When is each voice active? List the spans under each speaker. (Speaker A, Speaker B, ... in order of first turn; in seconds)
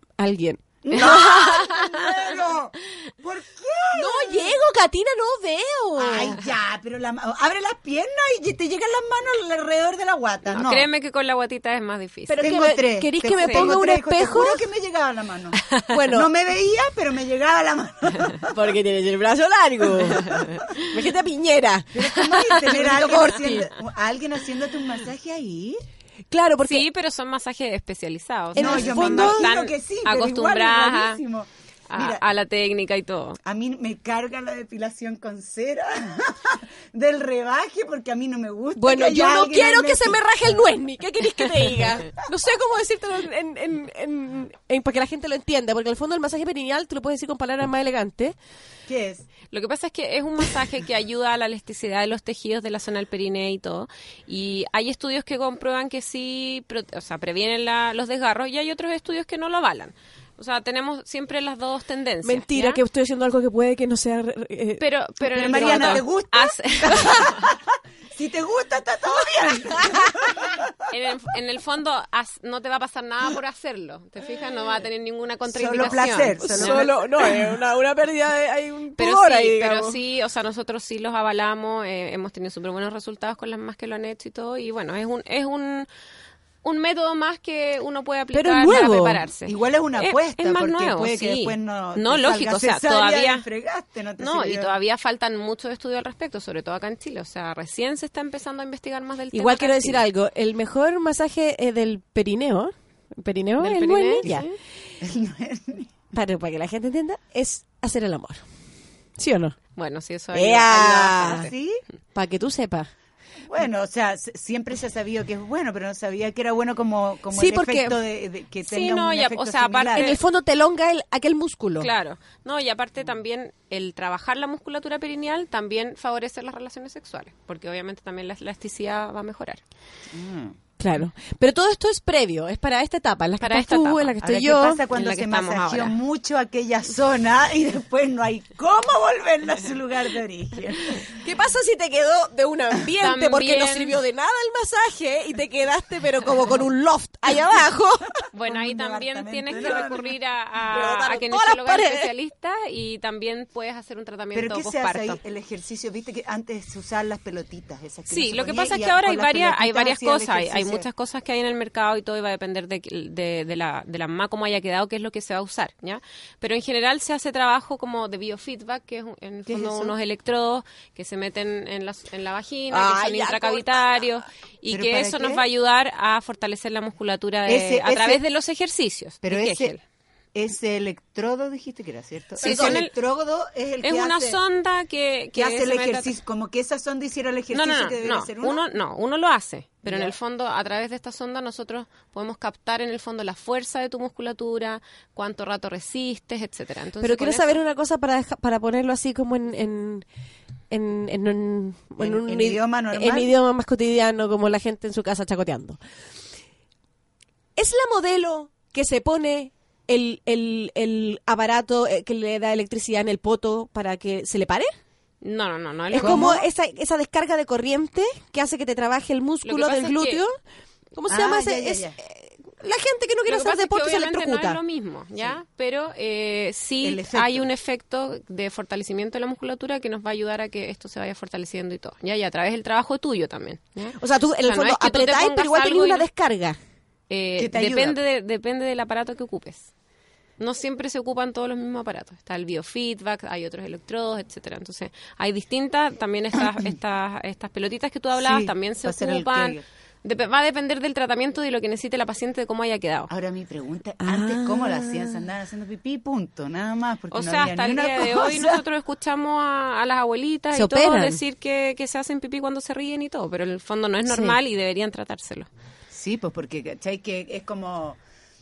Speaker A: 0.2-1.4, 3.9-6.4, 12.3-14.7, 15.9-16.3, 18.5-23.7, 26.3-26.9, 28.5-29.5, 38.8-48.4, 62.2-66.0, 76.4-80.0, 88.3-89.2, 99.3-104.5, 106.1-108.4, 109.2-109.5, 110.3-111.5, 112.2-112.9, 117.3-118.0, 119.9-121.9, 130.8-134.8, 141.0-148.2, 149.5-150.0, 150.7-152.1, 172.7-173.9, 182.4-182.8, 197.0-200.1, 200.7-205.8, 207.6-214.7, 215.9-220.3, 220.9-224.6, 234.0-236.6, 254.0-255.3, 260.5-261.2, 264.1-264.4
Speaker B: 0.8-4.5, 6.0-10.9, 12.4-18.5, 20.1-20.6, 21.9-25.8, 28.6-32.2, 33.4-40.2, 48.9-49.2, 65.3-70.7, 75.5-77.0, 89.5-94.7, 105.0-105.9, 111.2-111.8, 113.5-120.1, 130.1-130.6, 134.2-141.1, 148.4-150.0, 154.3-160.9, 169.5-169.9, 174.7-175.4, 177.4-178.2, 179.2-179.7, 180.3-184.4, 185.3-188.6, 189.8-190.2, 202.0-203.3, 215.9-216.4, 221.1-222.0, 226.8-227.5, 237.4-238.0, 248.2-249.6, 253.1-258.6, 265.9-268.0
Speaker C: 1.0-2.3, 10.5-12.4, 13.4-13.8, 15.7-16.0, 20.2-20.9, 26.7-31.2, 31.9-33.4, 49.5-62.8, 64.8-67.5, 70.9-76.9, 79.0-85.9, 86.6-93.5, 94.2-100.0, 103.6-104.6, 109.8-111.5, 118.7-120.2, 121.8-129.6, 133.4-136.0, 143.0-144.0, 148.3-155.2, 158.1-179.8, 182.4-182.9, 183.8-186.2, 187.5-197.6, 215.2-216.4, 219.4-220.2, 223.3-236.1, 237.1-239.7, 240.4-253.1, 257.1-265.5